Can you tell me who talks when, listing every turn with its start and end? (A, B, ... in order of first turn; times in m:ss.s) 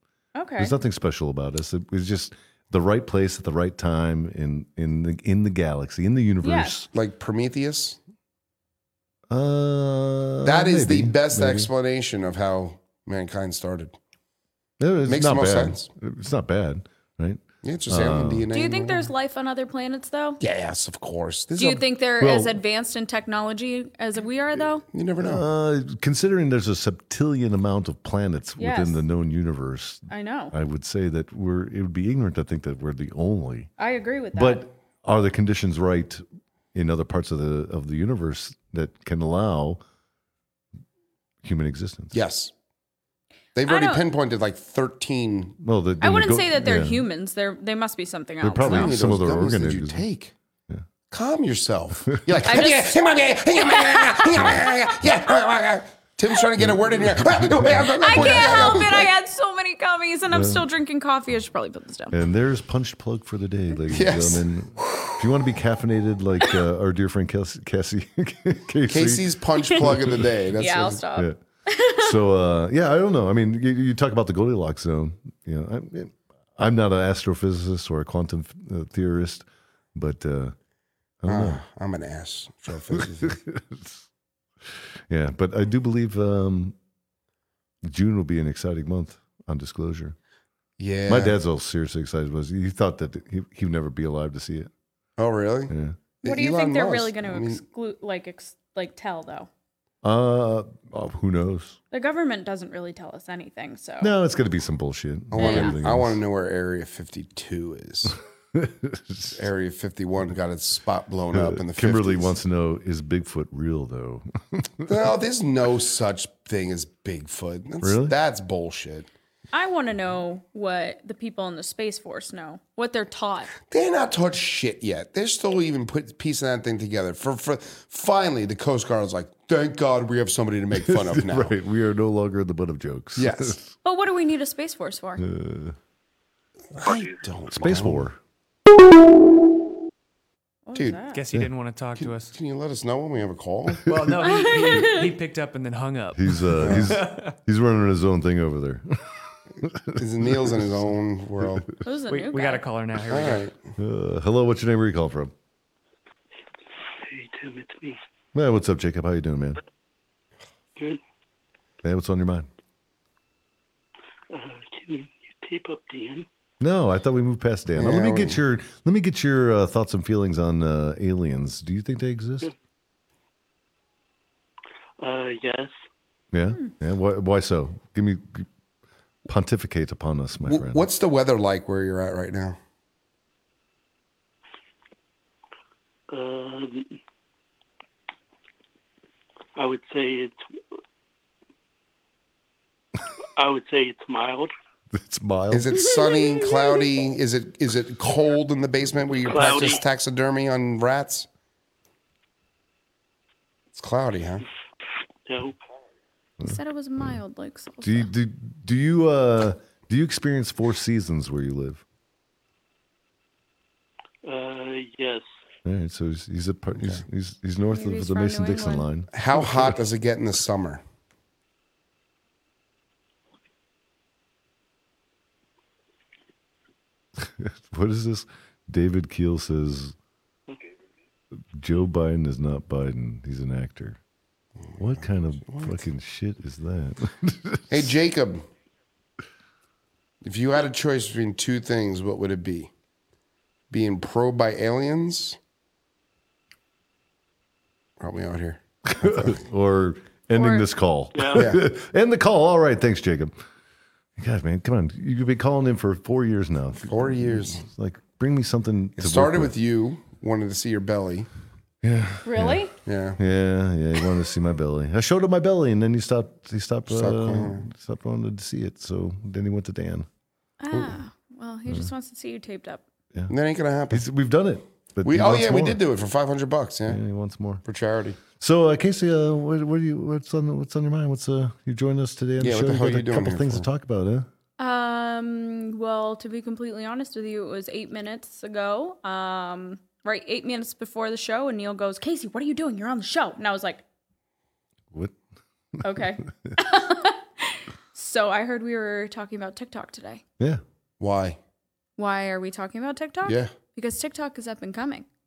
0:00.4-0:00.8 A
0:00.6-0:06.9 B
0:06.4-0:06.8 A
0:06.9-0:08.0 C
0:09.3-0:11.7 B
0:10.4-0:14.0 C
0:14.8-0:18.5 B
0:15.1-0:15.9 C
0:17.6-0:19.1 C
0:18.5-0:20.4 A
0:20.4-0:21.8 C
0:21.6-0:24.8 A
0:22.2-0:22.6 B
0:24.9-0:25.4 C
0:25.2-0:33.7 B
0:28.6-0:29.0 A
0:30.1-0:30.6 A
0:33.8-0:34.7 A
0:34.3-0:39.8 B
0:41.4-0:42.2 B
0:42.1-0:42.5 C
0:43.6-0:45.6 C
0:43.7-0:44.0 A
0:45.6-0:47.0 B
0:46.0-0:49.0 A
0:48.4-0:50.1 B
0:48.6-0:50.3 C
0:51.1-0:59.1 C
0:52.4-0:53.0 A
0:53.6-0:54.8 A
0:56.6-0:58.9 B
0:58.0-1:02.2 A
1:00.3-1:00.7 B
1:02.1-1:10.3 B
1:03.9-1:04.5 C
1:08.9-1:11.0 C
1:10.6-1:12.2 A
1:11.9-1:20.6 B
1:21.2-1:21.6 B
1:21.3-1:23.4 C
1:23.0-1:24.1 B
1:24.6-1:26.8 B
1:27.8-1:30.2 B
1:30.8-1:31.4 C
1:31.1-1:34.7 B
1:35.2-1:37.6 C
1:35.7-1:36.0 B
1:36.2-1:39.5 A
1:40.0-1:41.8 B
1:41.9-1:44.1 A
1:44.0-1:46.2 B
1:45.3-1:48.2 C
1:45.4-1:45.8 A
1:48.5-1:49.5 B
1:49.3-1:52.3 C
1:51.3-1:55.1 B
1:54.9-1:59.1 C
1:57.8-1:58.2 B
1:59.5-2:03.5 A
2:03.7-2:11.5 C
2:10.8-2:13.7 B
2:13.2-2:13.6 C
2:13.8-2:15.3 A
2:15.2-2:15.8 B
2:16.7-2:18.0 C
2:17.5-2:18.2 B
2:20.7-2:21.2 A
2:20.8-2:21.0 C
2:21.1-2:22.3 D
2:22.0-2:23.9 C
2:23.9-2:27.4 D
2:24.2-2:25.1 A
2:26.1-2:30.8 B
2:26.6-2:26.9 C
2:30.0-2:31.7 C
2:31.8-2:32.6 A
2:32.1-2:33.5 D
2:33.1-2:33.6 C
2:33.8-2:35.3 B
2:37.0-2:38.0 E
2:38.3-2:39.6 B
2:41.8-2:42.5 B
2:44.3-2:46.3 E
2:46.6-2:52.5 B
2:47.8-2:48.4 C
2:55.0-2:55.8 E
2:56.3-2:58.5 B
2:59.3-3:00.8 B
3:00.4-3:02.6 C
3:06.1-3:07.0 E
3:09.6-3:10.4 E
3:13.4-3:14.5 E
3:14.9-3:15.7 B
3:15.5-3:21.3 C
3:15.8-3:16.9 A
3:19.3-3:19.8 E
3:23.7-3:24.4 C
3:25.3-3:25.6 E
3:26.4-3:27.2 B
3:26.4-3:28.1 A
3:27.8-3:31.8 B
3:34.2-3:35.3 E
3:35.6-3:39.8 B
3:36.8-3:37.0 C
3:37.7-3:38.9 A
3:39.1-3:40.8 C
3:47.2-3:50.0 B
3:51.5-3:54.0 B
3:54.6-3:55.8 C
3:54.8-3:57.9 B
3:57.7-3:58.4 C
4:00.2-4:02.7 C
4:03.7-4:05.4 C
4:08.0-4:09.4 C
4:08.9-4:13.4 B
4:10.4-4:10.7 A
4:11.1-4:11.5 E
4:11.3-4:11.6 C
4:14.2-4:19.5 B
4:16.8-4:17.6 C
4:19.0-4:21.3 C
4:21.8-4:22.6 B
4:22.2-4:22.7 A
4:22.8-4:23.2 C
4:23.2-4:30.1 B
4:26.9-4:27.7 C
4:30.6-4:32.8 A
4:33.3-4:34.1 C
4:33.9-4:35.8 B
4:35.0-4:37.0 C
4:36.9-4:37.6 B
4:37.6-4:38.2 C
4:38.3-4:44.3 B
4:42.4-4:43.7 C
4:44.6-4:53.8 A
4:55.8-4:56.6 B
4:55.8-5:00.2 A
5:01.0-5:01.4 C
5:02.0-5:05.1 A
5:03.2-5:03.5 C